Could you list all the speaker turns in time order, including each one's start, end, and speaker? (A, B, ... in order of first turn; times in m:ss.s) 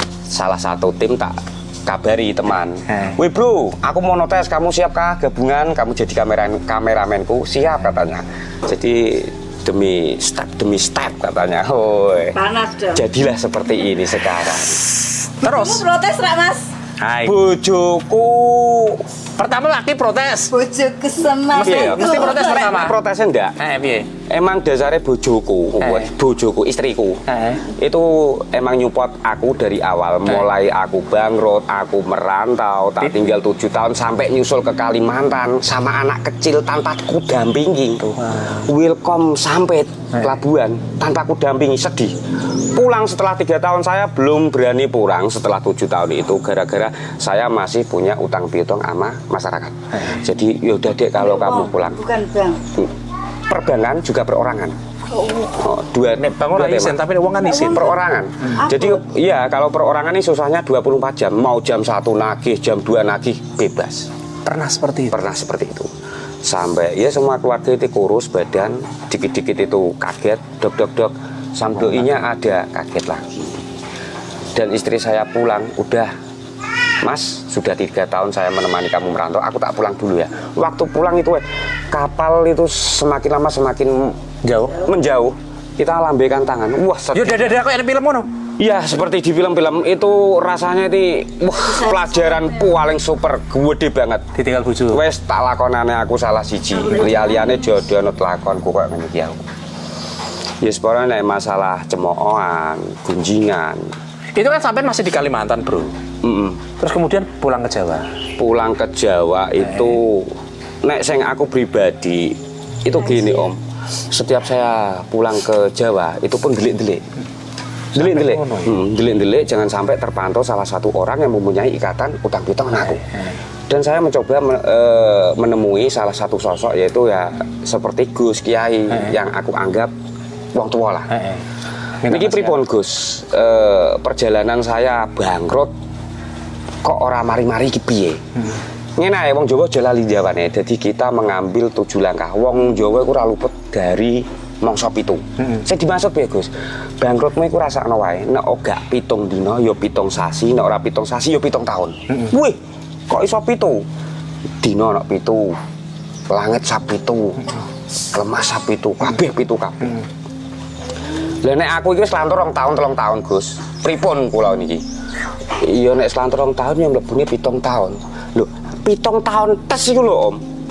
0:00.3-0:12.4 A
0:02.9-0:03.1 B
0:12.3-0:13.0 C
0:12.9-0:14.9 A
0:14.8-0:15.8 B
0:15.4-0:16.7 C
0:17.0-0:17.4 B
0:17.2-0:19.0 A
0:19.4-0:20.5 B
0:20.5-0:22.6 C
0:21.6-0:23.6 A
0:21.6-0:23.0 B
0:23.6-0:24.1 B
0:24.3-0:42.1 A
0:25.8-0:26.1 B
0:27.3-0:27.6 B
0:33.0-0:33.3 B
0:38.0-0:38.7 B
0:42.7-0:52.0 A
0:49.9-0:50.2 B
0:51.2-0:52.6 C
0:53.5-0:54.8 A
0:55.1-0:55.6 C
0:55.6-0:57.0 A
0:56.4-0:57.8 B
0:57.4-0:58.0 C
0:57.7-1:04.1 A
0:58.6-0:59.0 C
1:04.4-1:05.2 B
1:05.1-1:05.9 A
1:06.4-1:13.6 A
1:11.8-1:12.0 B
1:14.5-1:16.1 A
1:17.0-1:24.2 A
1:24.4-1:24.8 B
1:24.8-1:27.5 A
1:27.1-1:28.3 B
1:28.6-1:34.2 A
1:31.6-1:32.5 C
1:34.3-1:35.0 B
1:34.9-1:39.4 A
1:36.8-1:37.5 C
1:40.6-1:43.9 A
1:44.3-1:45.9 B
1:46.2-1:46.6 A
1:46.8-1:48.1 B
1:48.4-1:53.6 A
1:49.6-1:50.0 B
1:52.9-1:53.5 C
1:54.1-1:57.0 A
1:57.9-2:03.0 A
1:58.0-1:58.8 B
2:02.9-2:03.4 B
2:03.7-2:09.9 A
2:08.9-2:09.1 B
2:10.5-2:11.1 A
2:11.1-2:11.4 B
2:12.0-2:12.6 B
2:12.1-2:15.7 A
2:16.8-2:18.2 A
2:19.0-2:32.6 A
2:33.1-2:33.8 A
2:34.6-2:35.6 A
2:36.3-2:37.6 A
2:38.1-2:40.0 A
2:41.4-2:44.8 A
2:45.6-2:50.4 A